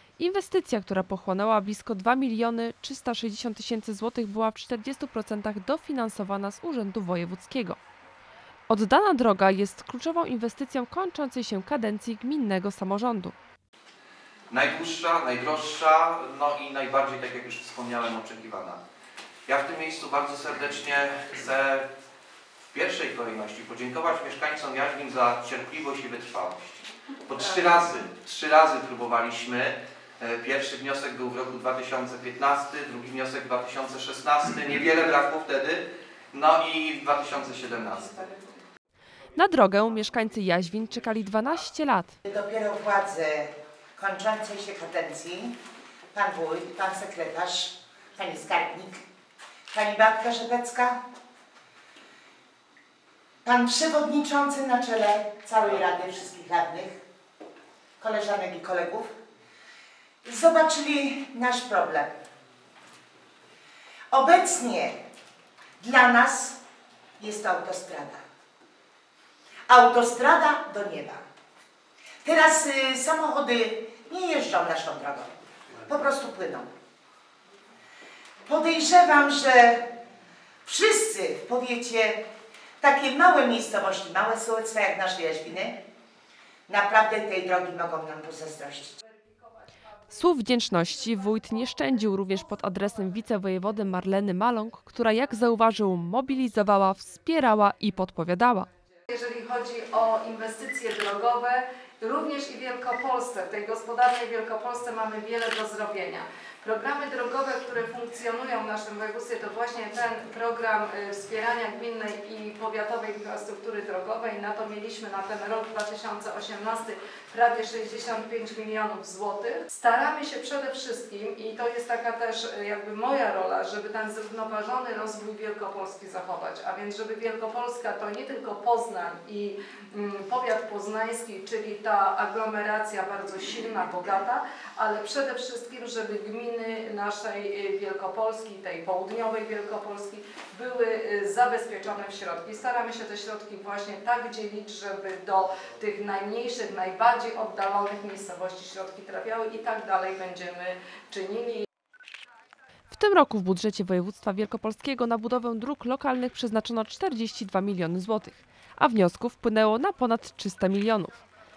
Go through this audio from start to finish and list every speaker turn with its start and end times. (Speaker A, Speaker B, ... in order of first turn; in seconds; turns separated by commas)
Speaker A: 0.2-7.8, Speaker A: 8.7-13.3, Speaker B: 14.5-18.8, Speaker B: 19.5-21.9, Speaker B: 22.7-38.5, Speaker A: 39.4-42.2, Speaker C: 42.3-45.5, Speaker C: 46.1-49.0, Speaker C: 49.7-51.0, Speaker C: 53.5-57.0, Speaker C: 58.0-59.1, Speaker C: 60.2-62.1, Speaker C: 64.1-65.0, Speaker C: 65.8-66.6, Speaker C: 67.2-68.2, Speaker C: 69.7-71.2, Speaker C: 72.2-75.3, Speaker C: 75.8-76.7, Speaker C: 78.5-79.9, Speaker C: 80.7-82.2, Speaker C: 82.8-85.8, Speaker C: 86.7-89.0, Speaker A: 90.1-98.7, Speaker D: 99.1-151.7, Speaker A: 152.9-161.1